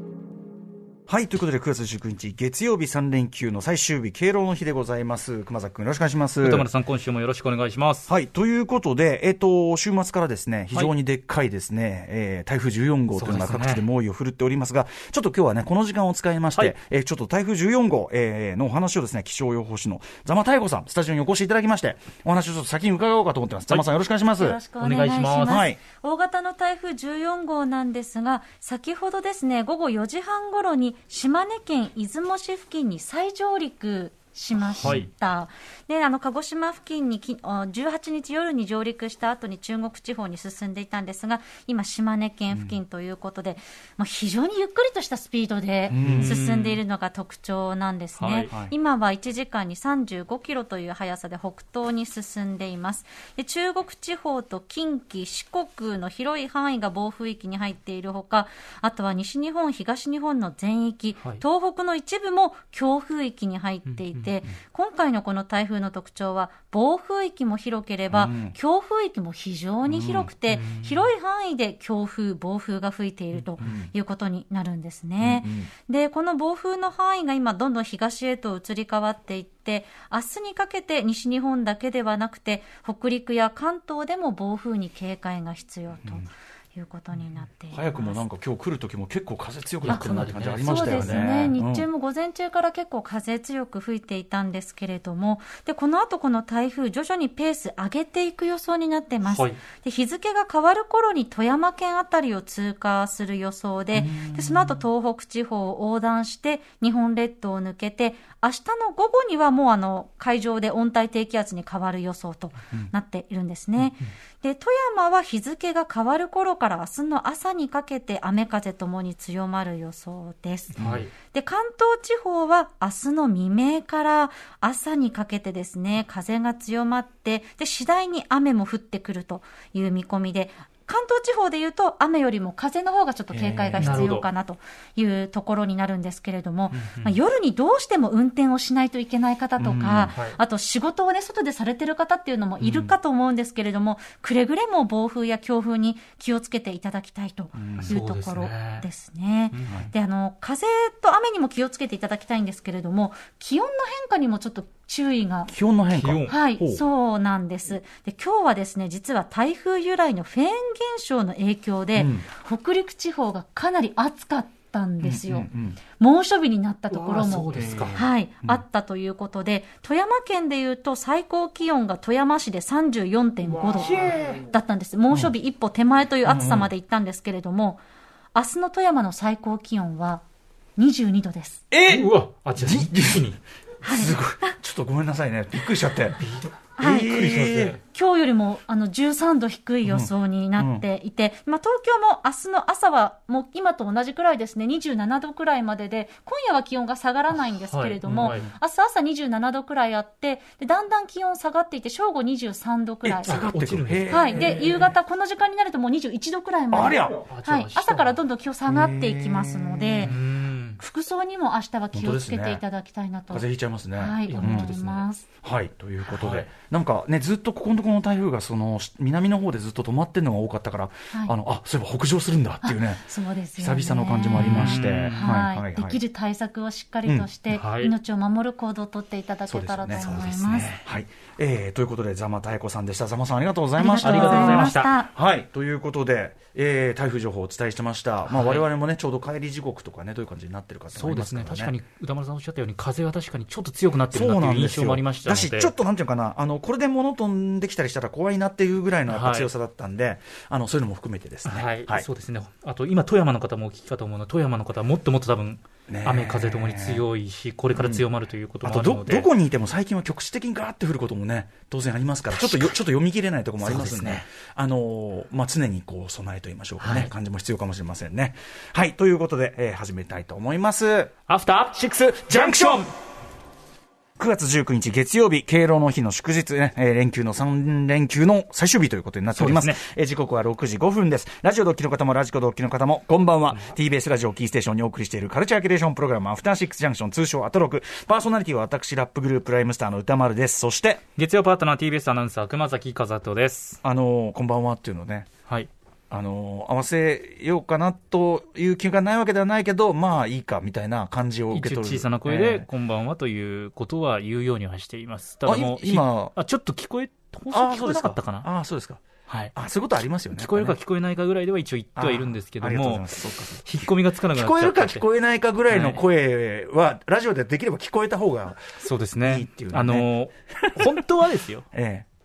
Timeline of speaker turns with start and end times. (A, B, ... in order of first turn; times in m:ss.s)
0:01.1-0:06.7 A
0:06.4-0:08.1 B
0:08.1-0:24.6 A
0:13.1-0:13.8 B
0:24.4-1:28.2 C
0:24.8-0:25.6 B
0:25.4-0:25.8 A
0:34.8-0:35.0 A
0:34.8-0:35.1 B
0:45.9-0:46.3 A
0:46.0-0:46.8 B
0:48.2-0:48.5 B
1:03.9-1:04.3 B
1:08.1-1:08.5 A
1:10.0-1:10.3 A
1:10.0-1:11.1 B
1:13.6-1:13.9 A
1:15.2-1:15.7 A
1:27.7-1:31.8 A
1:29.8-1:31.5 B
1:29.8-1:30.1 C
1:30.6-2:35.5 C
1:39.3-1:39.6 B
1:43.9-1:44.7 A
2:00.8-2:01.1 B
2:13.3-2:14.1 A
2:13.8-2:14.3 B
2:16.8-2:17.2 B
2:19.6-2:20.2 A
2:22.6-2:22.9 B
2:27.6-2:28.0 A
2:27.8-2:28.8 B
2:29.5-2:29.8 B
2:35.5-2:36.8 A
2:35.9-2:36.3 B
2:36.3-2:57.8 C
2:42.0-2:42.2 A
2:45.0-2:45.8 A
2:46.9-2:48.0 B
2:47.6-2:48.6 A
2:53.7-2:54.4 B
2:56.2-2:56.7 A
2:58.3-3:00.2 C
3:00.8-3:01.6 C
3:01.7-3:03.4 B
3:01.7-3:03.3 A
3:03.8-3:04.5 C
3:03.8-3:06.2 A
3:06.2-3:07.8 B
3:06.8-3:23.4 C
3:06.8-3:07.8 A
3:09.8-3:10.8 A
3:17.6-3:18.5 B
3:18.1-3:18.4 A
3:23.0-3:24.7 A
3:23.2-3:24.8 B
3:24.1-3:30.2 C
3:26.7-3:27.3 A
3:27.2-3:28.2 B
3:28.7-3:30.2 A
3:30.0-3:30.8 B
3:30.8-3:35.2 C
3:31.9-3:32.6 A
3:33.3-3:34.8 A
3:34.3-3:35.0 B
3:35.4-3:43.0 A
3:36.1-3:36.5 B
3:42.6-3:50.8 C
3:43.6-3:46.0 A
3:44.4-3:45.4 B
3:47.5-3:47.9 B
3:49.5-4:01.7 A
3:50.0-3:50.8 B
3:53.8-3:55.1 C
3:54.0-3:54.9 B
3:58.3-3:58.6 B
4:00.9-4:05.7 B
4:04.1-4:12.1 A
4:09.1-4:09.5 B
4:11.4-4:19.3 B
4:15.9-4:17.0 A
4:17.7-4:18.0 A
4:18.6-4:31.1 A
4:22.4-4:22.7 B
4:23.6-4:24.2 B
4:26.8-4:27.1 B
4:31.3-4:32.9 B
4:31.8-4:32.9 A
4:34.2-4:51.0 A
4:39.3-4:39.8 B
4:51.2-4:53.8 B
4:53.8-4:55.3 A
4:56.1-5:02.7 A
5:01.5-5:08.5 B
5:05.4-5:06.3 A
5:07.5-5:09.0 A
5:09.3-5:09.5 B
5:09.5-5:10.8 A
5:10.3-5:13.1 B
5:12.0-5:13.7 A
5:13.6-5:15.0 B
5:14.3-5:18.7 A
5:15.7-5:16.0 B
5:18.8-5:21.7 B
5:19.2-5:21.0 A
5:21.7-5:22.0 A